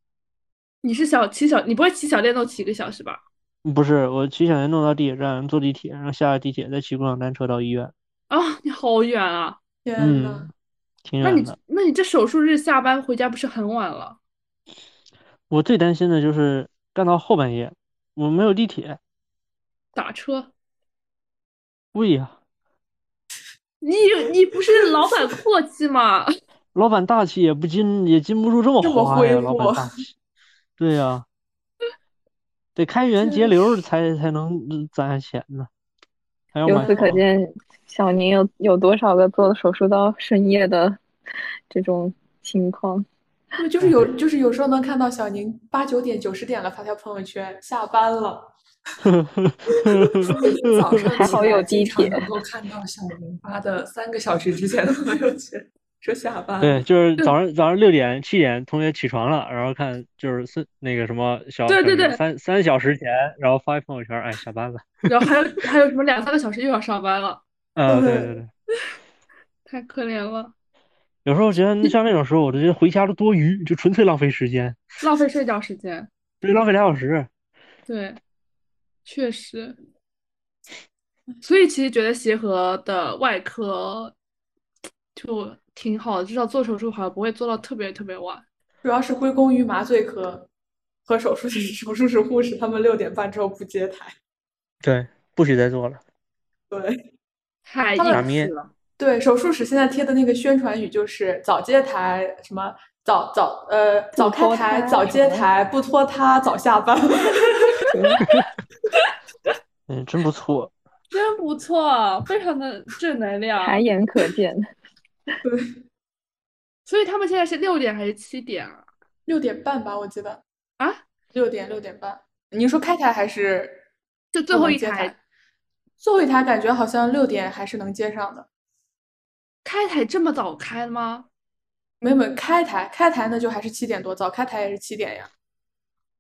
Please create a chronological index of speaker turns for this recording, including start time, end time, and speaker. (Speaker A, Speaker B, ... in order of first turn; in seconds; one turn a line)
Speaker A: 0.8-3.2
Speaker B: 3.6-7.9
Speaker A: 8.3-9.6
Speaker C: 9.8-10.5
Speaker B: 10.0-10.5
Speaker B: 11.1-11.6
Speaker A: 11.2-14.2
Speaker B: 15.5-19.0
Speaker A: 19.9-20.5
Speaker B: 21.9-22.4
Speaker A: 23.8-26.3
Speaker B: 26.7-30.1
Speaker C: 28.8-29.9
Speaker B: 30.8-31.3
Speaker B: 32.8-35.7
Speaker C: 33.2-33.5
Speaker B: 36.5-37.2
Speaker D: 36.7-41.0
Speaker C: 36.7-37.1
Speaker D: 41.7-43.1
Speaker C: 43.6-48.5
Speaker B: 43.8-44.1
Speaker B: 49.0-51.2
Speaker C: 49.9-50.7
Speaker E: 50.6-56.8
Speaker D: 51.1-52.2
Speaker C: 51.3-51.9
Speaker B: 56.6-65.3
Speaker A: 61.7-62.2
Speaker A: 65.1-67.4
Speaker B: 67.8-68.5
Speaker C: 67.9-68.3
Speaker A: 69.7-70.5
Speaker B: 71.2-74.9
Speaker A: 75.0-76.1
Speaker B: 76.4-77.3
Speaker A: 77.9-78.2
Speaker A: 79.1-79.8
Speaker A: 81.4-84.1
Speaker A: 85.2-88.5
Speaker C: 88.8-90.5
Speaker C: 91.1-94.1
Speaker B: 94.8-96.0
Speaker C: 96.7-97.0
Speaker A: 97.7-98.7
Speaker B: 98.1-98.5
Speaker C: 99.0-107.9
Speaker D: 104.2-105.5
Speaker D: 107.9-108.4
Speaker B: 108.2-108.5
Speaker B: 109.9-110.7
Speaker A: 111.1-113.8
Speaker D: 113.6-114.6
Speaker C: 115.4-115.8
Speaker A: 116.9-118.9
Speaker C: 119.3-120.4
Speaker C: 121.3-123.8
Speaker A: 124.3-125.1
Speaker C: 124.5-125.2
Speaker C: 126.0-128.5
Speaker A: 129.7-131.3
Speaker C: 132.0-135.3